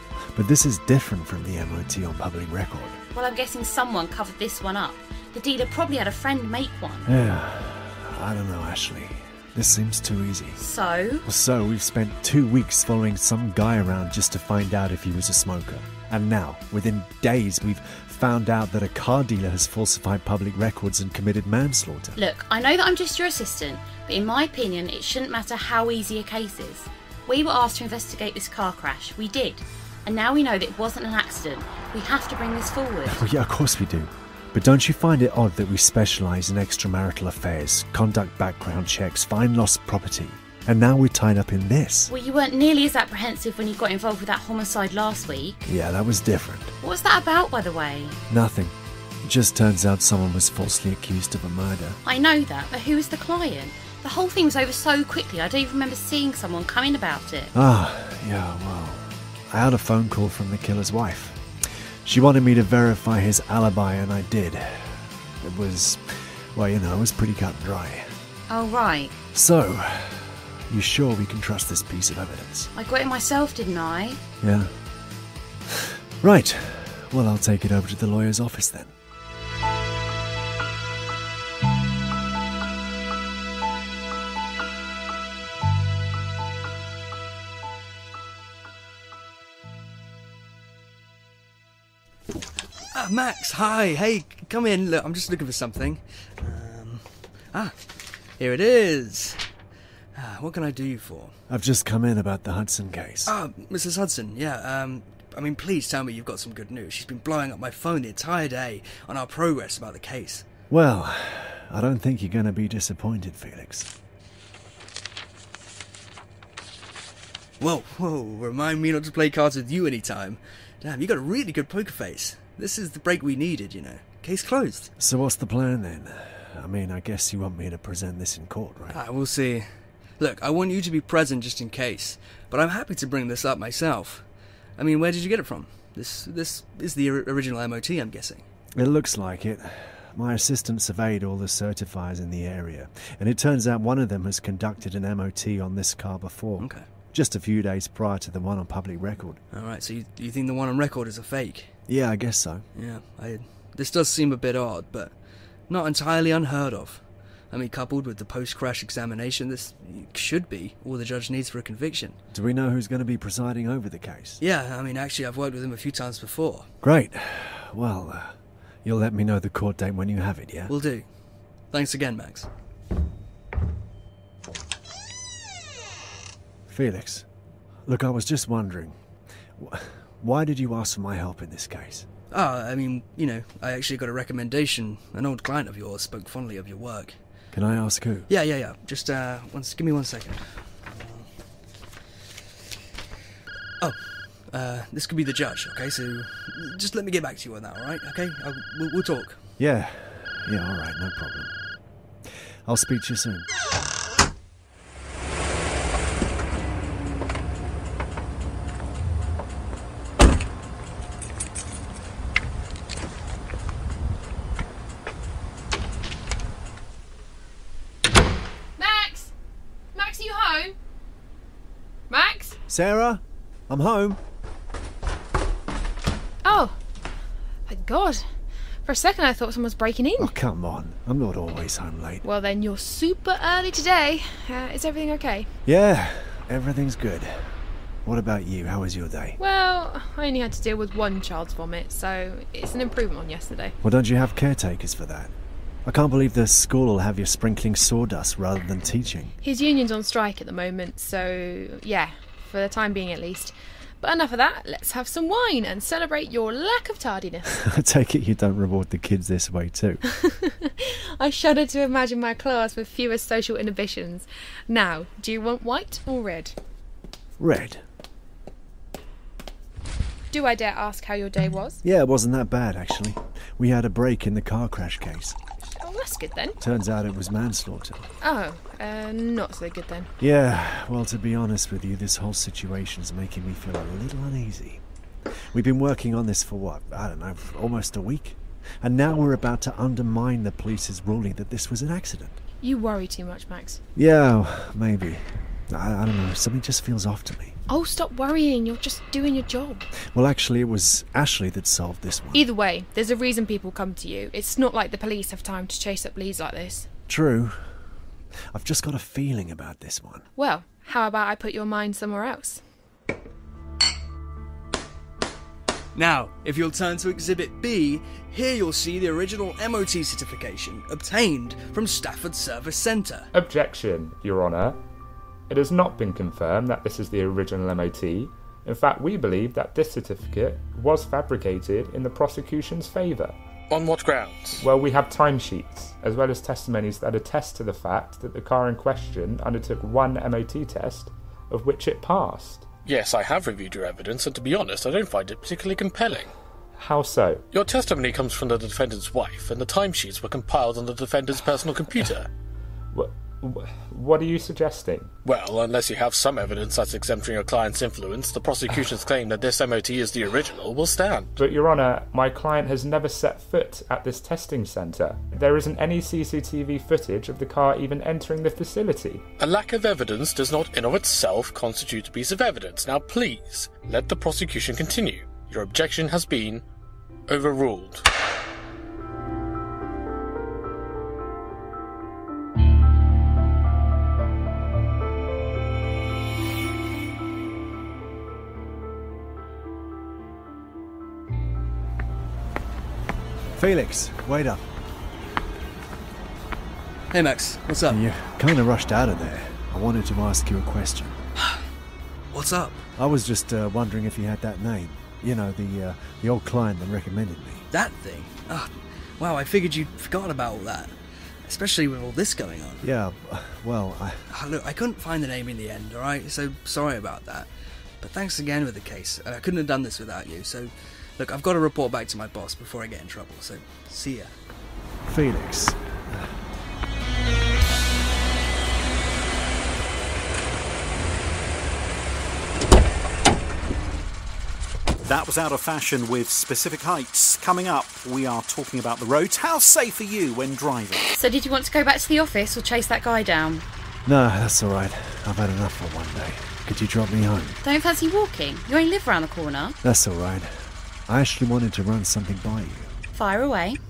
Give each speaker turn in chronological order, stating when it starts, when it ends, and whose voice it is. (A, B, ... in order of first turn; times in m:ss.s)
0:00.3-0:03.0 A
0:03.1-0:07.1 B
0:07.1-0:10.6 A
0:10.6-0:11.2 B
0:11.2-0:22.2 A
0:22.2-0:33.2 B
0:33.0-0:42.1 A
0:42.1-0:45.6 B
0:45.6-0:46.7 A
0:46.8-0:48.2 B
0:48.3-0:52.0 A
0:52.0-0:57.5 B
0:57.5-1:08.1 A
1:08.5-1:09.1 B
1:09.3-1:12.7 A
1:12.7-1:14.2 B
1:14.4-1:14.7 A
1:15.7-1:18.9 A
1:32.9-1:39.5 C
1:40.1-1:41.4 C
1:41.5-1:43.3 A
1:43.3-1:50.4 C
1:50.7-1:53.9 A
1:57.6-2:04.9 C
2:05.0-2:09.0 A
2:08.9-2:18.5 C
2:18.7-2:29.4 A
2:26.6-2:26.8 C
2:29.5-2:31.8 C
2:31.9-2:32.6 A
2:32.7-2:42.2 C
2:42.3-2:44.4 A
2:44.4-2:46.7 C
2:46.8-2:50.7 A
2:50.7-2:51.2 C
2:51.7-2:52.5 C
2:56.7-2:57.2 A
2:57.8-2:59.0 A
2:59.6-3:02.1 A
3:02.3-3:07.3 C
3:07.5-3:08.3 A
3:08.3-3:11.3 C
3:13.8-3:19.4 C
3:19.6-3:21.5 A
3:22.7-3:23.5 A
3:38.8-3:39.3 D
3:39.9-3:40.7 D
3:42.1-3:42.6 D
3:42.7-3:44.2 A
3:46.4-3:46.8 D
3:47.7-3:48.3 D
3:48.8-3:50.3 D
3:50.2-3:52.2 A
3:52.2-3:55.5 D
3:55.7-3:59.4 A
3:59.4-4:03.7 D
4:03.8-4:05.3 A
4:05.8-4:09.3 A
4:09.4-4:17.5 D
4:17.5-4:20.0 A
4:20.1-4:26.6 D
4:27.4-4:27.8 A
4:30.3-4:31.8 D
4:31.8-4:35.4 A
4:35.8-4:36.6 D
4:36.6-4:38.1 A
4:38.2-4:40.1 D
4:40.2-4:44.8 A
4:45.5-4:52.4 A
4:52.6-4:53.8 D
4:54.0-4:57.6 A
4:57.7-4:59.8 D
5:00.1-5:02.4 A
5:02.3-5:06.9 D
5:07.1-5:07.9 A
5:08.5-5:10.3 A
5:10.4-5:12.6 D
5:15.9-5:23.3 C
5:23.3-5:24.8 E
5:25.5-5:33.4 E
5:33.7-5:34.6 F
5:34.6-5:42.7 E
5:42.8-5:46.3 F
5:46.8-5:47.4 E
5:47.5-5:52.3 F
5:52.9-5:55.1 E
5:55.2-6:01.3 F
6:01.4-6:09.2 E
6:09.4-6:16.6 F
6:17.3-6:18.0 F
6:33.6-6:34.6 A
6:37.1-6:38.0 C
6:37.9-6:41.2 A
6:42.3-6:42.8 C
6:43.0-6:47.6 A
6:47.7-6:52.9 C
6:52.8-6:54.2 A
6:54.3-7:04.3 C
7:05.0-7:06.4 A
7:15.0-7:21.1 G
7:21.1-7:23.7 B
7:24.1-7:27.6 A
7:27.6-7:29.8 B
7:29.8-7:32.9 A
7:33.1-7:33.8 B